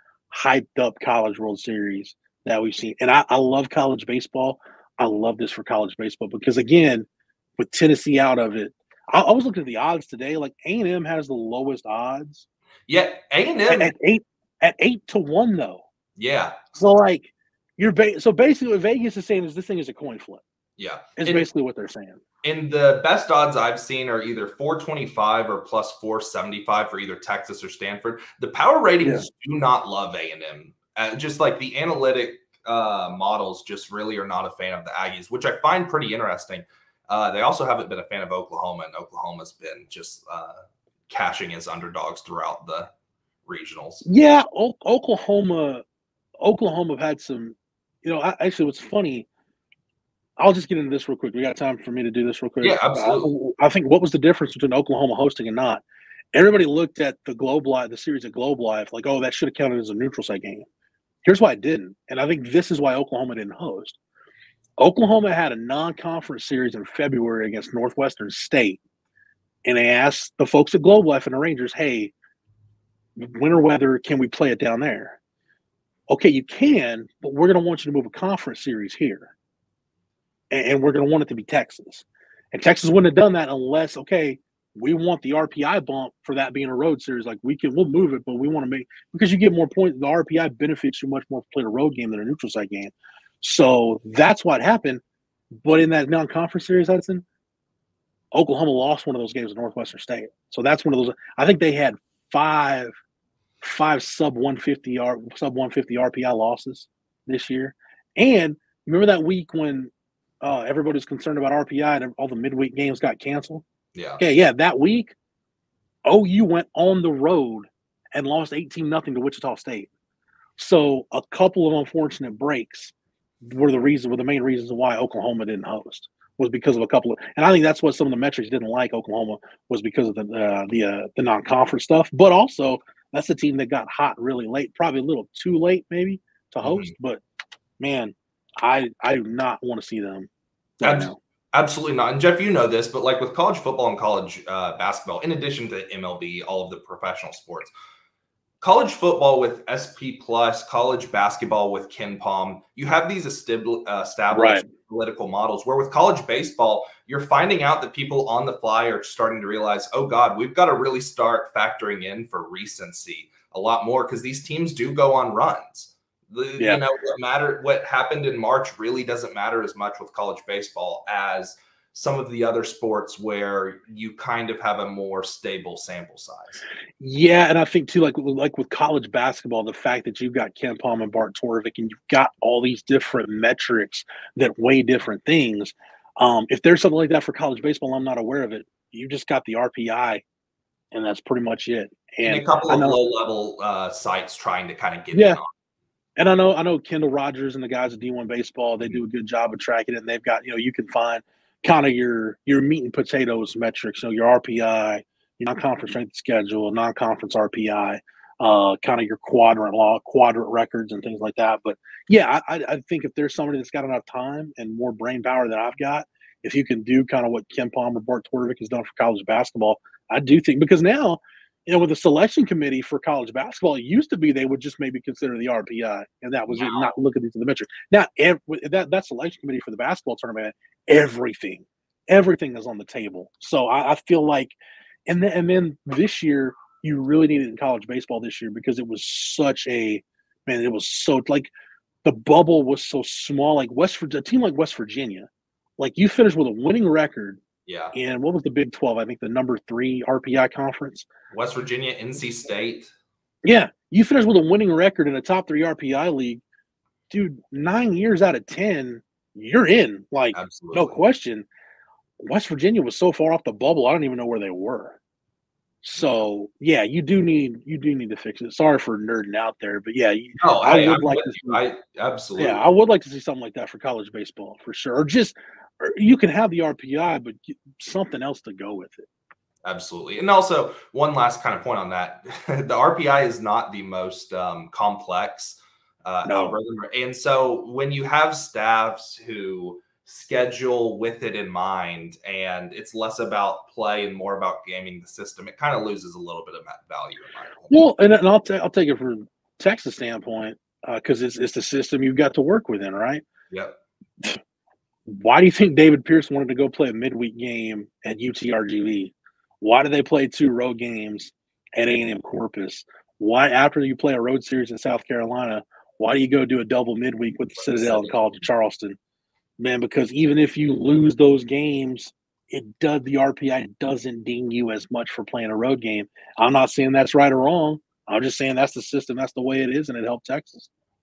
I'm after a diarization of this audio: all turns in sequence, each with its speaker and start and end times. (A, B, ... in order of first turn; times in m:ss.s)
0:00.3-0:07.1 A
0:07.6-0:12.4 A
0:12.9-0:13.9 B
0:13.7-0:15.8 A
0:16.2-0:16.6 B
0:16.7-0:20.4 A
0:20.8-0:21.5 B
0:21.2-0:22.2 A
0:22.4-0:42.9 B
0:29.0-0:29.3 A
0:43.4-0:44.1 B
0:44.0-0:45.8 A
0:46.4-0:49.3 A
0:50.4-1:00.7 A
0:52.6-0:53.3 B
1:01.2-1:04.0 A
1:04.8-1:08.8 A
1:09.6-1:12.1 A
1:13.2-1:15.2 A
1:16.1-1:19.3 A
1:20.5-1:35.0 A
1:35.6-1:37.2 A
1:38.3-1:42.9 A
1:43.6-1:53.6 A
1:53.9-1:54.2 B
1:54.2-1:55.1 A
1:56.0-1:59.9 A
2:00.6-2:17.2 A
2:16.6-2:16.9 B
2:17.8-2:21.2 A
2:20.8-2:27.7 B
2:28.6-2:56.6 B
2:34.3-2:34.6 A
2:57.0-3:10.2 A
3:10.9-3:13.0 A
3:12.2-3:15.5 B
3:15.1-3:15.4 A
3:16.2-3:54.6 A
3:46.5-3:46.9 B
3:55.1-4:01.5 A
4:02.0-4:07.4 A
4:07.6-4:07.9 B
4:07.9-4:11.1 A
4:11.3-4:12.9 B
4:13.4-4:16.4 A
4:17.1-4:21.5 A
4:20.3-4:21.0 B
4:22.2-4:25.0 A
4:25.8-4:31.6 A
4:30.4-4:32.6 B
4:32.4-4:39.1 A
4:39.6-4:57.8 B
4:46.2-4:46.6 A
4:57.7-5:03.2 A
5:03.5-5:03.8 B
5:05.1-5:19.0 A
5:17.6-5:18.4 B
5:19.6-5:30.7 A